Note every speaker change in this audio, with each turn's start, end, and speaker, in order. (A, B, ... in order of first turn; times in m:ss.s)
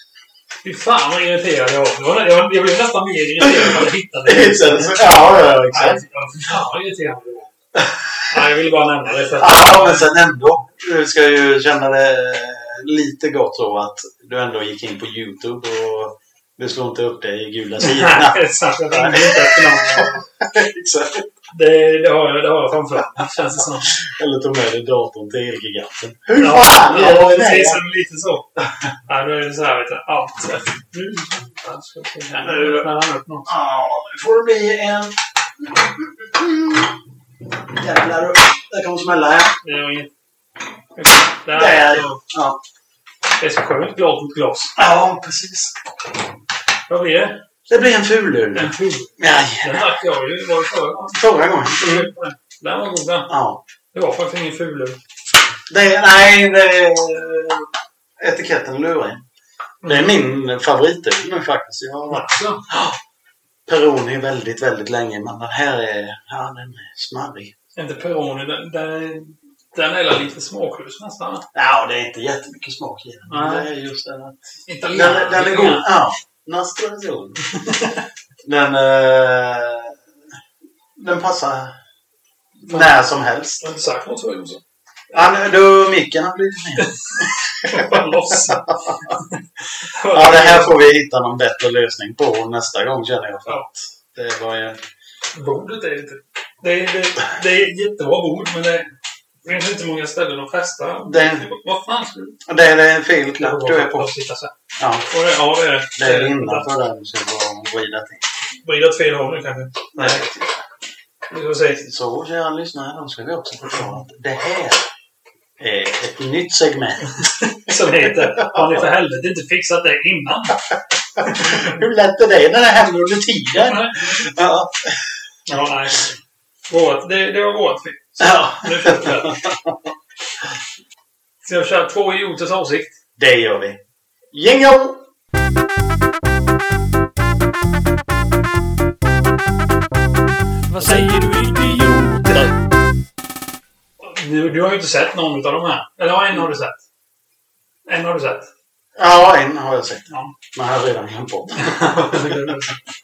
0:00.6-0:05.1 A
0:03.4-0:06.0 B
0:05.7-0:07.5 A
0:07.8-0:08.2 B
0:08.3-0:10.1 A
0:09.4-0:21.3 B
0:17.8-0:20.2 A
0:21.5-0:23.9 A
0:23.9-0:27.8 B
0:26.4-0:28.4 A
0:29.1-0:33.5 A
0:32.4-0:32.9 B
0:33.5-0:36.9 B
0:37.7-0:39.6 B
0:39.6-0:40.1 A
0:40.9-0:42.2 A
0:41.5-0:42.6 B
0:43.4-0:44.7 A
0:44.8-0:45.7 B
0:46.9-0:47.4 A
0:47.7-0:49.9 B
0:48.5-0:53.3 A
0:51.1-0:52.1 B
0:53.3-0:53.6 B
0:53.9-0:55.0 A
0:55.7-0:59.2 B
0:59.8-1:00.2 A
0:59.8-1:03.0 B
1:02.1-1:02.6 A
1:03.7-1:07.5 B
1:07.8-1:11.4 A
1:11.5-1:17.4 B
1:13.3-1:13.7 A
1:14.7-1:15.9 A
1:17.6-1:18.0 A
1:18.4-1:20.0 B
1:20.9-1:21.7 B
1:22.6-1:23.6 B
1:23.6-1:24.6 A
1:25.1-1:29.1 B
1:27.1-1:30.8 A
1:30.1-1:34.8 B
1:35.3-1:38.9 A
1:39.4-1:42.4 A
1:41.0-1:41.5 B
1:42.4-1:44.1 B
1:43.4-1:44.5 A
1:44.8-1:45.0 B
1:45.1-1:46.7 A
1:46.0-1:48.2 B
1:48.6-1:50.2 A
1:49.9-1:50.6 B
1:51.3-1:51.8 A
1:51.8-1:54.8 B
1:55.6-1:58.8 B
1:57.2-2:00.6 A
2:01.2-2:05.1 B
2:01.2-2:01.8 A
2:03.6-2:04.3 A
2:05.5-2:06.1 A
2:06.7-2:09.4 A
2:08.2-2:09.8 B
2:11.4-2:12.9 A
2:13.2-2:13.8 B
2:14.3-2:15.0 B
2:20.8-2:21.1 B
2:20.8-2:21.2 A
2:22.0-2:22.5 B
2:24.0-2:26.8 A
2:27.9-2:28.5 A
2:29.0-2:32.4 B
2:30.1-2:30.3 A
2:31.6-2:32.7 A